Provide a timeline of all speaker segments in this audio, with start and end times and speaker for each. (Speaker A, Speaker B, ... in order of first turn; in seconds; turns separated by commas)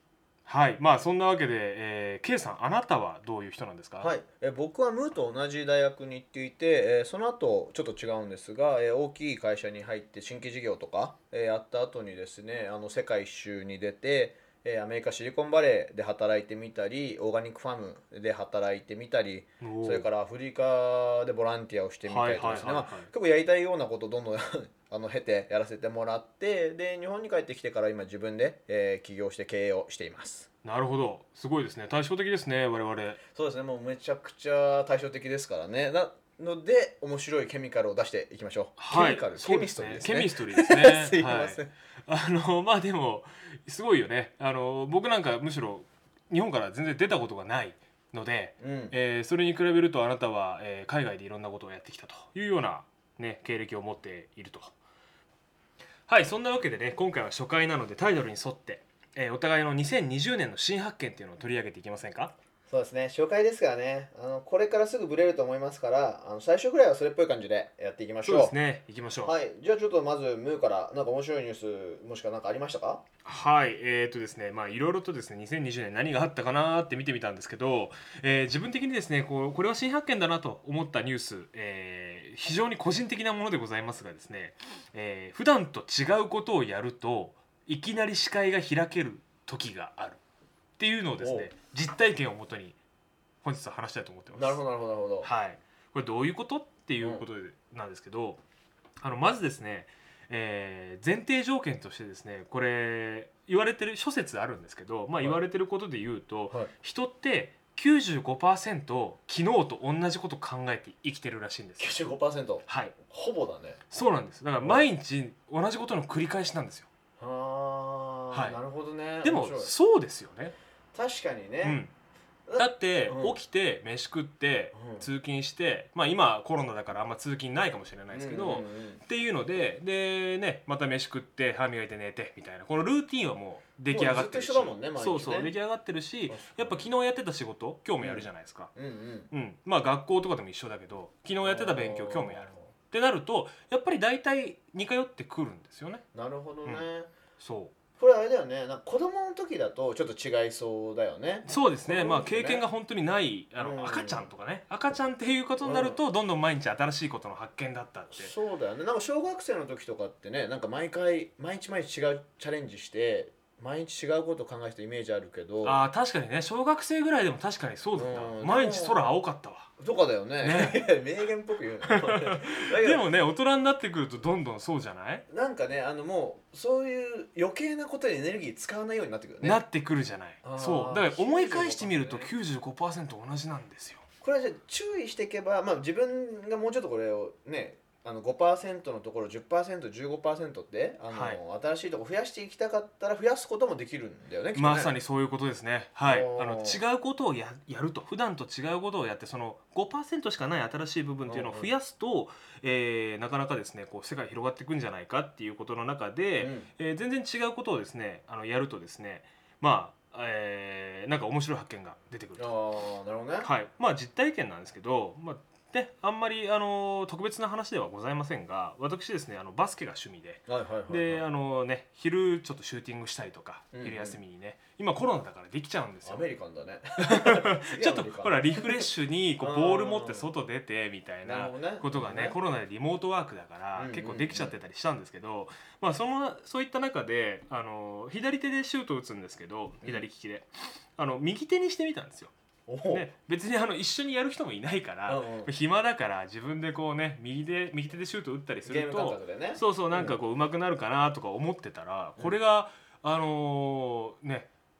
Speaker A: 0.5-4.1, Speaker B: 4.0-30.5, Speaker A: 19.6-20.0, Speaker A: 22.0-23.1, Speaker A: 30.6-33.2, Speaker B: 33.3-41.7, Speaker A: 38.8-54.7, Speaker B: 48.6-48.9, Speaker A: 56.1-62.3, Speaker B: 62.7-68.5, Speaker A: 68.2-69.3, Speaker B: 69.2-73.0, Speaker A: 73.2-90.2, Speaker A: 90.8-92.8, Speaker B: 91.2-91.5, Speaker A: 93.4-94.6, Speaker B: 94.3-95.3, Speaker A: 95.2-98.4, Speaker B: 97.0-97.2, Speaker A: 99.0-112.0, Speaker B: 111.8-113.8, Speaker A: 112.7-113.0, Speaker A: 113.9-116.9, Speaker B: 117.2-119.7, Speaker A: 118.3-118.6, Speaker A: 119.2-120.5, Speaker B: 120.9-121.8, Speaker A: 121.6-121.9, Speaker B: 122.5-123.4, Speaker A: 122.6-138.7, Speaker B: 124.7-125.1, Speaker B: 128.1-129.0, Speaker B: 133.9-135.5, Speaker B: 136.3-136.9, Speaker B: 138.0-139.3, Speaker A: 139.3-146.0, Speaker B: 141.4-142.7, Speaker B: 146.1-147.1, Speaker A: 147.4-147.7, Speaker B: 148.0-152.6, Speaker A: 151.4-158.3, Speaker B: 153.6-154.3, Speaker B: 155.6-156.0, Speaker B: 158.1-165.8, Speaker A: 165.6-169.7, Speaker B: 167.9-169.1, Speaker B: 169.8-173.1, Speaker A: 170.4-170.8, Speaker A: 171.9-175.2, Speaker B: 175.3-179.6, Speaker A: 179.4-184.0, Speaker B: 180.4-182.3, Speaker B: 184.2-194.9, Speaker A: 191.1-191.4, Speaker A: 194.5-212.6, Speaker B: 196.0-196.8, Speaker B: 201.3-201.7, Speaker B: 206.4-206.7, Speaker B: 212.4-213.5, Speaker A: 213.4-226.3, Speaker B: 220.5-221.2, Speaker B: 223.7-224.2, Speaker B: 226.0-228.9, Speaker A: 227.0-242.3, Speaker B: 229.4-230.2, Speaker B: 231.2-232.4, Speaker B: 233.7-234.5, Speaker B: 242.7-243.1, Speaker A: 242.9-254.5, Speaker B: 245.1-245.5, Speaker B: 248.6-250.2